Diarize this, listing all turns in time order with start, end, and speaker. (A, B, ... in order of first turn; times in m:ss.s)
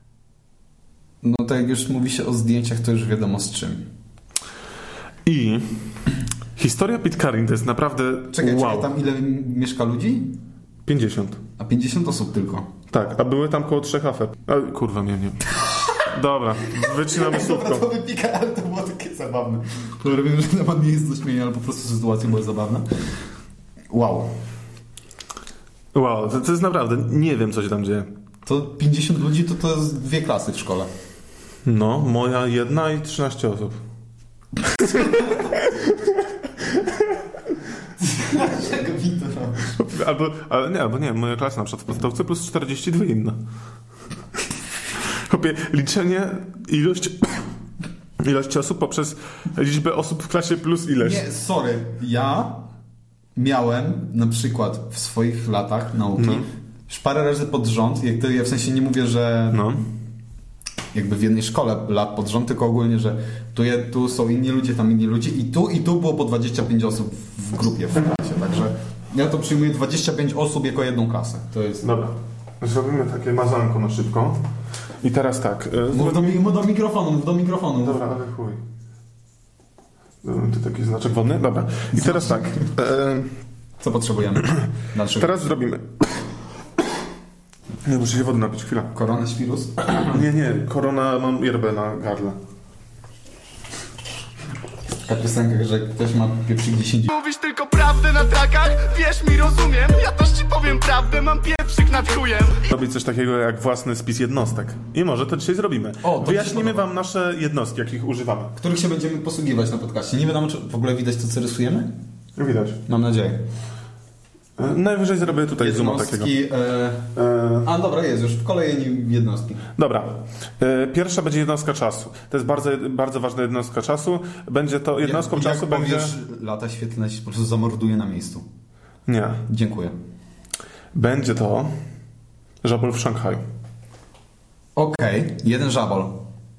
0:01.2-0:03.9 A
0:05.2-0:06.0 B
0:06.6-0:08.9 B
0:08.3-0:10.4 A
0:10.8-0:11.4 B
0:11.6-0:12.7 A
0:12.9-0:17.8 B
0:16.8-0:22.8 A
0:23.9-0:24.4 A
0:25.9-0:28.1 B
0:28.4-0:30.9 A
0:31.6-0:33.8 B
0:34.8-0:35.9 B
0:38.0-0:39.8 A
0:39.7-0:43.4 B
0:45.0-0:47.4 B
0:48.2-0:51.2 B
0:51.0-0:52.7 A
0:53.3-0:59.6 A
0:56.2-0:56.5 B
0:59.5-0:59.9 B
1:00.9-1:11.9 A
1:11.8-1:14.4 B
1:15.0-1:16.4 B
1:15.9-1:18.0 A
1:17.8-1:18.6 B
1:20.2-1:23.3 B
1:21.9-1:22.7 A
1:23.8-1:25.3 A
1:25.1-1:26.3 B
1:27.8-1:28.9 B
1:28.9-1:30.2 A
1:30.0-1:32.4 B
1:35.0-1:37.1 A
1:37.1-1:42.6 C
1:42.6-1:48.5 B
1:46.0-1:46.9 A
1:48.6-1:51.9 A
1:52.4-1:52.8 B
1:52.9-1:53.4 A
1:54.6-1:56.3 B
1:55.5-1:59.6 A
1:57.1-1:57.7 B
1:59.8-2:06.1 B
2:05.0-2:08.4 A
2:09.0-2:09.4 B
2:09.5-2:09.9 A
2:10.9-2:11.7 B
2:12.6-2:13.4 B
2:14.8-2:16.2 A